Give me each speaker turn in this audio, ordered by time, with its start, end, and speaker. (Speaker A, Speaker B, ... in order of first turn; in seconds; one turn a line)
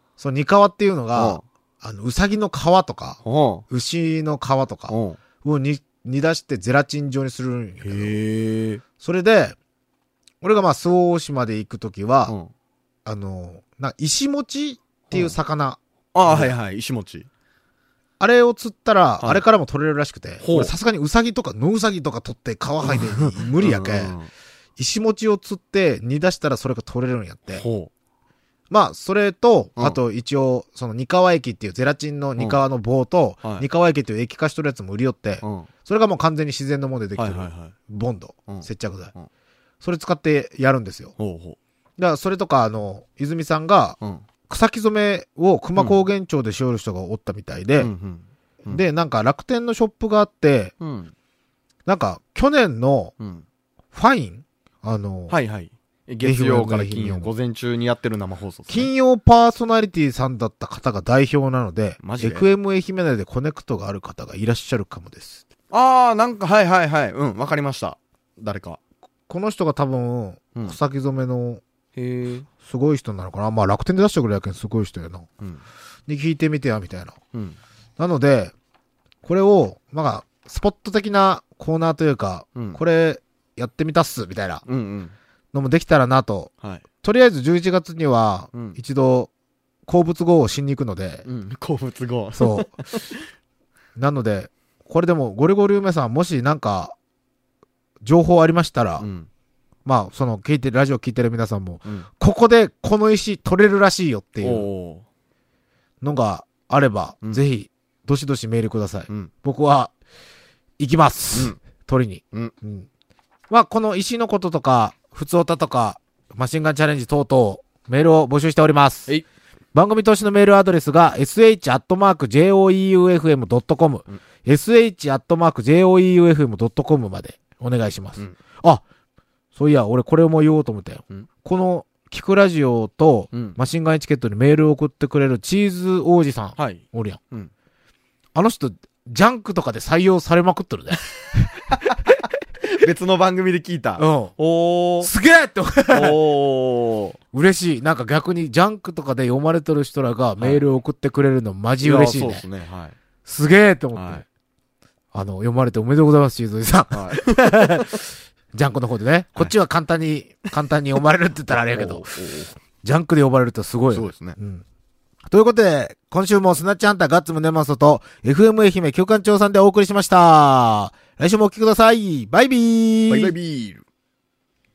Speaker A: 0.2-8.2
Speaker B: 1.1-1.4
Speaker B: 3.2-3.6
Speaker B: 4.9-5.2
Speaker B: 7.8-8.8
Speaker A: 9.0-9.6
Speaker A: 10.4-12.3
Speaker A: 13.1-16.5
Speaker B: 15.1-15.3
Speaker B: 16.1-17.3
Speaker A: 18.2-24.1
Speaker B: 20.4-20.7
Speaker B: 22.8-24.3
Speaker A: 24.8-27.6
Speaker B: 27.5-27.9
Speaker A: 28.7-39.1
Speaker B: 35.4-35.7
Speaker B: 37.2-37.7
Speaker B: 38.5-39.3
Speaker A: 39.8-41.1
Speaker B: 41.2-41.6
Speaker A: 42.0-44.0
Speaker B: 44.0-44.2
Speaker A: 44.5-47.9
Speaker B: 45.8-46.0
Speaker B: 47.8-48.8
Speaker A: 48.6-50.7
Speaker B: 50.8-51.1
Speaker A: 51.9-53.1
Speaker B: 53.2-53.4
Speaker A: 53.9-55.4
Speaker B: 55.3-58.9
Speaker A: 56.2-57.3
Speaker A: 58.7-65.4
Speaker B: 62.0-62.5
Speaker B: 65.7-68.8
Speaker A: 69.3-71.6
Speaker B: 72.0-72.5
Speaker A: 72.6-75.3
Speaker A: 76.1-77.2
Speaker A: 78.0-78.5
Speaker A: 79.2-84.6
Speaker B: 82.5-82.8
Speaker B: 84.7-85.1
Speaker A: 85.5-86.5
Speaker A: 87.0-89.3
Speaker B: 88.5-88.8
Speaker A: 89.8-91.2
Speaker B: 91.2-93.2
Speaker A: 92.3-92.7
Speaker A: 94.0-97.0
Speaker A: 98.0-99.0
Speaker B: 99.0-99.3
Speaker A: 99.8-104.7
Speaker B: 104.4-105.0
Speaker A: 106.0-109.9
Speaker A: 110.8-112.9
Speaker A: 113.5-119.1
Speaker A: 119.7-128.8
Speaker A: 129.5-137.2
Speaker B: 133.3-133.6
Speaker B: 136.6-137.5
Speaker A: 138.3-141.5
Speaker B: 141.7-142.1
Speaker B: 142.6-145.1
Speaker A: 144.0-144.3
Speaker A: 145.0-146.2
Speaker B: 145.9-147.2
Speaker A: 147.3-152.4
Speaker B: 151.8-152.9
Speaker A: 153.2-154.2
Speaker B: 153.9-154.2
Speaker A: 155.1-158.0
Speaker B: 156.9-158.0
Speaker A: 158.5-162.0
Speaker B: 161.5-162.6
Speaker A: 162.8-164.6
Speaker B: 163.9-164.3
Speaker A: 165.3-173.3
Speaker B: 173.1-173.8